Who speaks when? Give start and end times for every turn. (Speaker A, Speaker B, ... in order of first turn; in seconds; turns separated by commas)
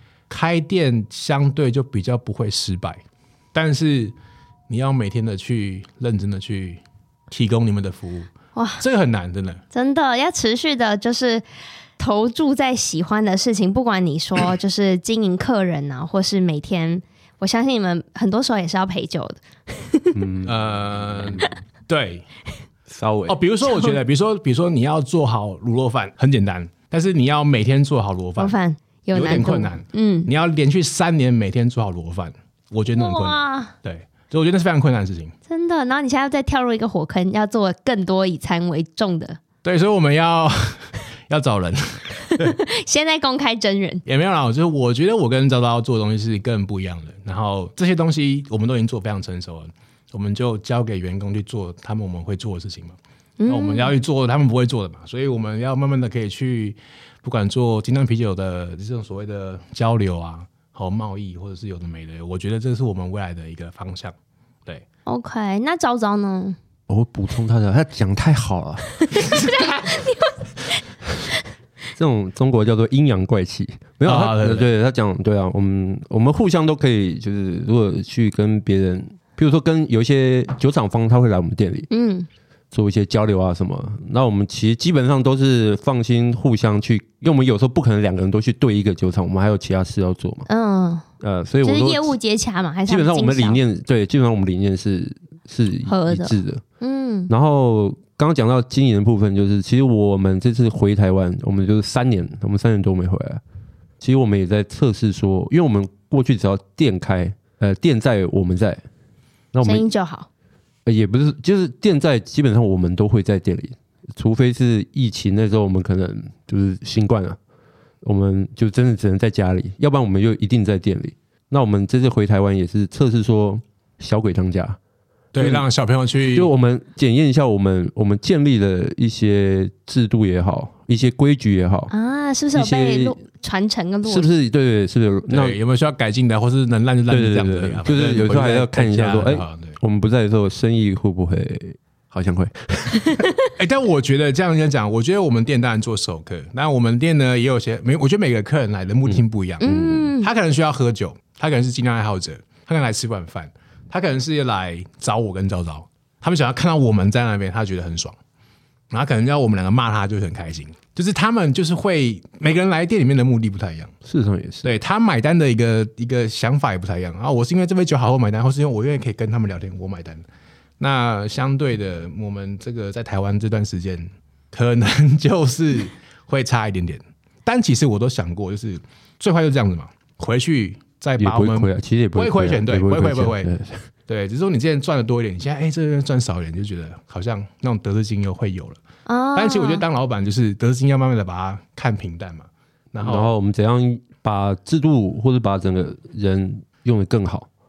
Speaker A: 0.3-3.0, Speaker A: 3.5-4.2, Speaker A: 4.7-9.6, Speaker B: 8.6-8.8, Speaker B: 9.7-11.4, Speaker B: 12.0-20.2, Speaker C: 20.1-21.5, Speaker A: 20.4-22.3, Speaker C: 22.9-23.4, Speaker A: 23.3-28.6, Speaker B: 23.7-23.9, Speaker B: 28.4-30.3, Speaker A: 29.1-35.3, Speaker B: 33.0-33.7, Speaker B: 35.5-39.4, Speaker A: 39.6-42.6, Speaker B: 42.3-44.0, Speaker A: 44.1-64.1, Speaker B: 53.4-53.9, Speaker B: 65.1-66.6, Speaker C: 66.9-69.0, Speaker B: 69.1-70.8, Speaker C: 72.0-81.9, Speaker A: 74.0-74.7, Speaker B: 81.9-82.3, Speaker C: 82.7-90.5, Speaker B: 90.5-91.0, Speaker C: 91.2-92.2, Speaker B: 91.6-93.6, Speaker C: 92.9-96.6, Speaker B: 95.9-97.3, Speaker C: 97.3-103.4, Speaker C: 104.0-108.8, Speaker C: 109.5-109.9, Speaker B: 109.6-110.3, Speaker C: 110.9-117.4, Speaker C: 118.0-124.8, Speaker A: 125.3-126.5, Speaker C: 125.4-125.7, Speaker C: 126.3-131.9, Speaker B: 131.9-134.3, Speaker C: 132.5-133.2, Speaker C: 134.1-135.6, Speaker A: 135.3-139.8, Speaker C: 137.1-143.3, Speaker A: 143.6-149.7, Speaker C: 149.1-150.1, Speaker B: 149.6-150.3, Speaker A: 150.2-158.2, Speaker A: 158.9-163.9, Speaker C: 164.0-164.7, Speaker A: 164.6-170.2, Speaker A: 170.8-183.5, Speaker C: 181.2-183.9, Speaker A: 184.1-188.8, Speaker B: 189.1-189.8, Speaker A: 189.3-193.3, Speaker C: 193.0-197.5